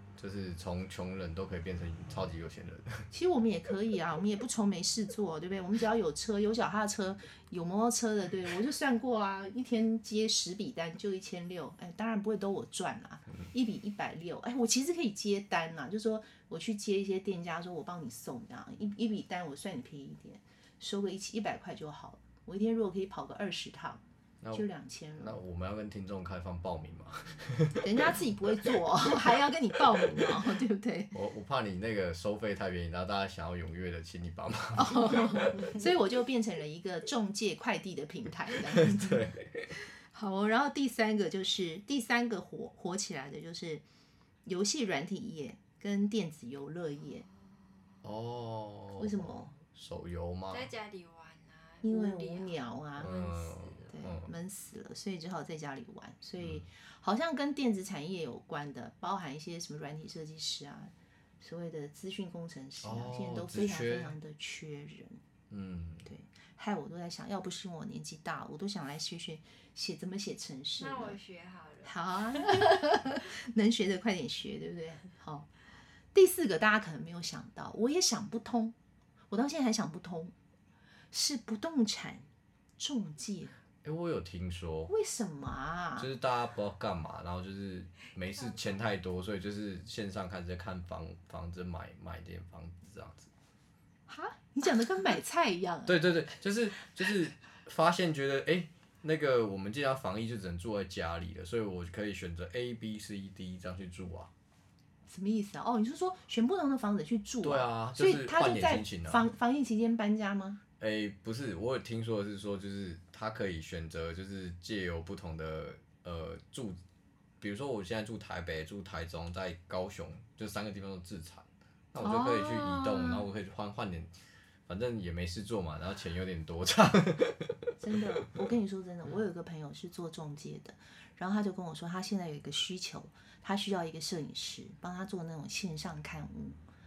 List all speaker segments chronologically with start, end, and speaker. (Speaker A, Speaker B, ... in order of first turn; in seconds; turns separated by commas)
Speaker A: 0.2-3.1, Speaker B: 3.1-24.0, Speaker A: 24.4-24.6, Speaker B: 24.5-25.4, Speaker A: 25.2-28.1, Speaker B: 27.8-31.1, Speaker A: 31.1-35.8, Speaker B: 34.7-39.3, Speaker A: 38.7-39.7, Speaker B: 40.1-43.8, Speaker B: 44.4-47.2, Speaker A: 48.0-50.7, Speaker B: 49.0-49.5, Speaker C: 50.5-54.0, Speaker B: 51.8-53.1, Speaker A: 53.0-54.3, Speaker B: 53.9-65.2, Speaker A: 56.4-56.6, Speaker A: 62.8-64.1, Speaker A: 65.5-66.1, Speaker B: 66.0-71.2, Speaker C: 70.8-72.8, Speaker B: 71.8-75.5, Speaker B: 76.1-78.7, Speaker B: 79.3-80.3, Speaker B: 81.1-82.2, Speaker B: 82.8-83.5, Speaker A: 83.8-84.9, Speaker B: 84.9-86.1, Speaker A: 86.0-93.3, Speaker B: 94.1-96.0, Speaker A: 95.8-104.3, Speaker B: 105.1-110.6, Speaker A: 107.4-109.3, Speaker A: 110.8-116.8, Speaker A: 117.4-124.1, Speaker B: 122.0-123.2, Speaker A: 124.7-127.7, Speaker B: 127.8-136.6